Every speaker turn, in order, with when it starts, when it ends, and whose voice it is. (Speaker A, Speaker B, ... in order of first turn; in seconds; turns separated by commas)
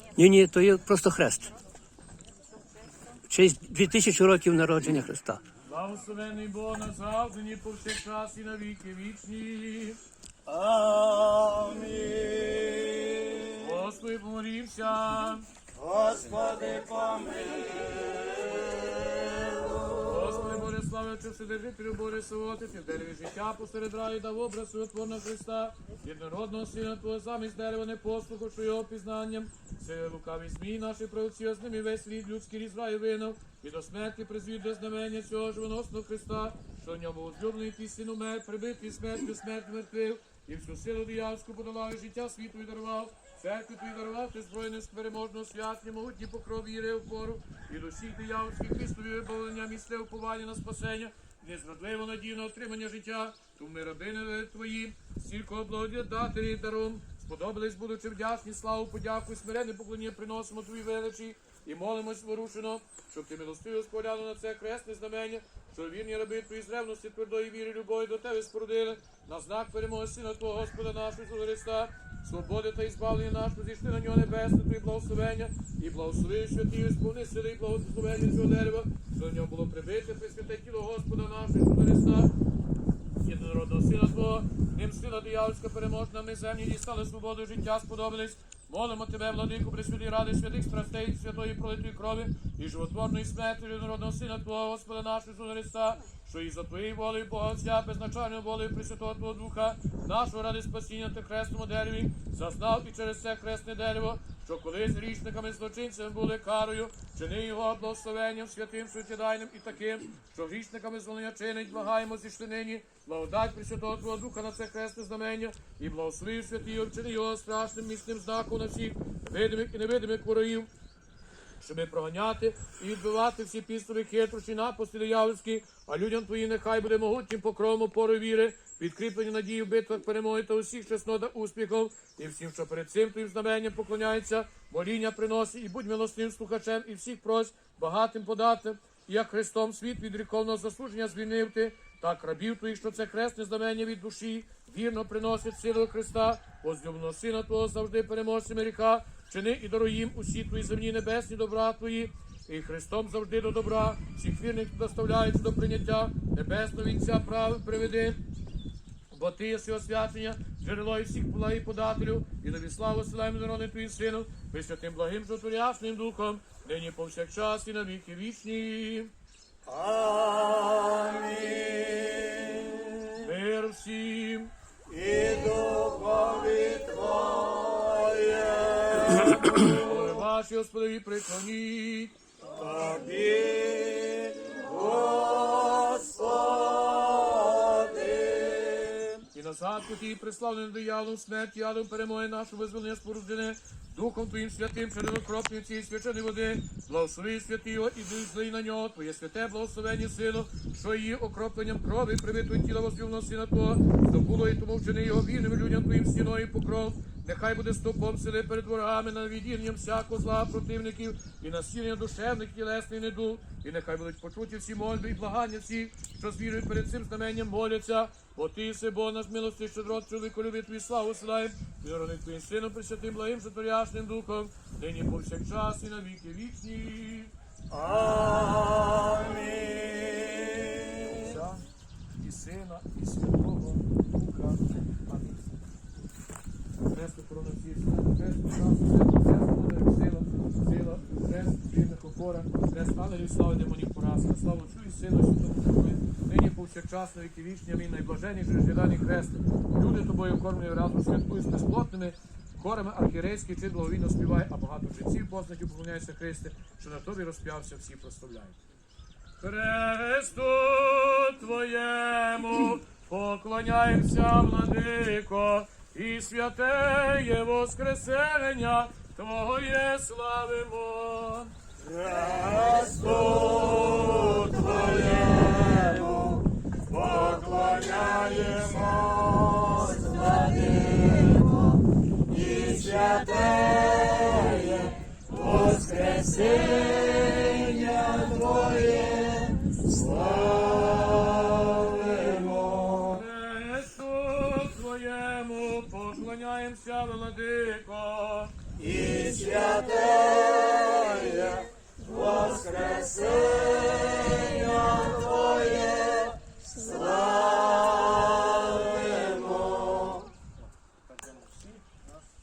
Speaker A: 0.2-1.6, Speaker A: 3.3-5.4, Speaker B: 5.7-10.0, Speaker C: 10.5-13.5, Speaker B: 13.5-15.5, Speaker C: 15.8-19.7, Speaker B: 20.0-82.3, Speaker B: 83.2-120.7, Speaker B: 121.6-158.2, Speaker B: 159.1-169.1, Speaker C: 169.7-173.1, Speaker B: 173.2-174.5, Speaker C: 174.9-179.4, Speaker B: 179.6-182.2, Speaker C: 182.6-189.2, Speaker B: 189.3-227.3, Speaker C: 227.7-231.1, Speaker B: 231.0-231.6, Speaker B: 232.2-235.6, Speaker B: 236.9-258.6, Speaker B: 259.4-271.5, Speaker C: 271.9-276.4, Speaker C: 276.9-292.9, Speaker B: 292.6-298.6, Speaker C: 298.8-308.0, Speaker C: 308.7-310.0, Speaker B: 311.1-312.1